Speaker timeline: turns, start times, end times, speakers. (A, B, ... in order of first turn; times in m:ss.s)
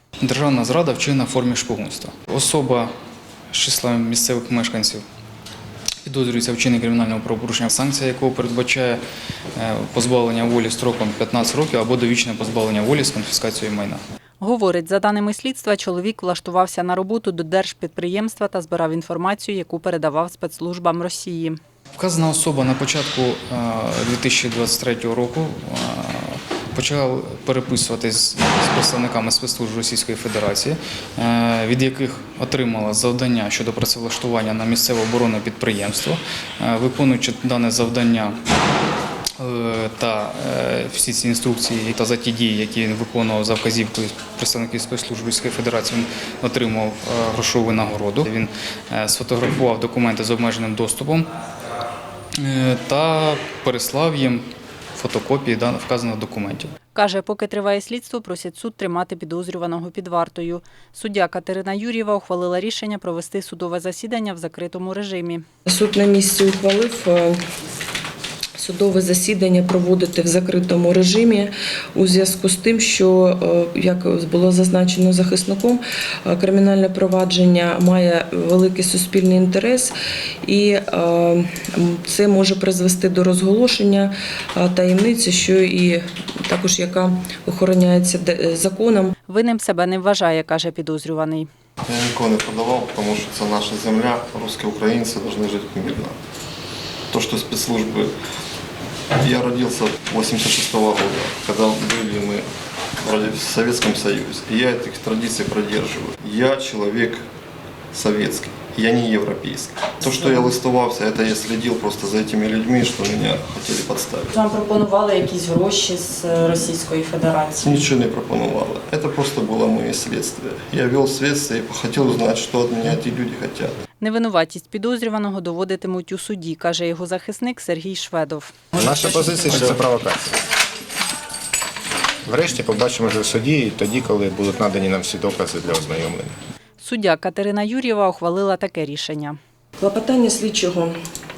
0:00.2-0:02.9 A
0:03.5-0:05.0 A
0:06.0-0:09.0 A
0:09.6-0:14.0 A
0:14.4-0:21.6 B
0:22.0-0:38.4 A
0:39.4-0:51.3 A
0:52.4-0:56.7 A
0:56.9-1:05.4 B
1:05.7-1:07.4 C
1:08.6-1:29.1 C
1:29.3-1:31.5 B
1:31.8-1:36.2 D
1:37.1-1:38.1 D
1:39.2-1:42.5 D
1:43.0-1:47.2 D
1:47.9-1:54.3 D
1:50.0-1:50.3 B
1:54.3-1:57.8 B
1:57.6-2:03.7 D
2:04.0-2:08.5 B
2:08.8-2:10.4 E
2:12.2-2:16.4 E
2:16.8-2:19.4 B
2:19.8-2:21.0 C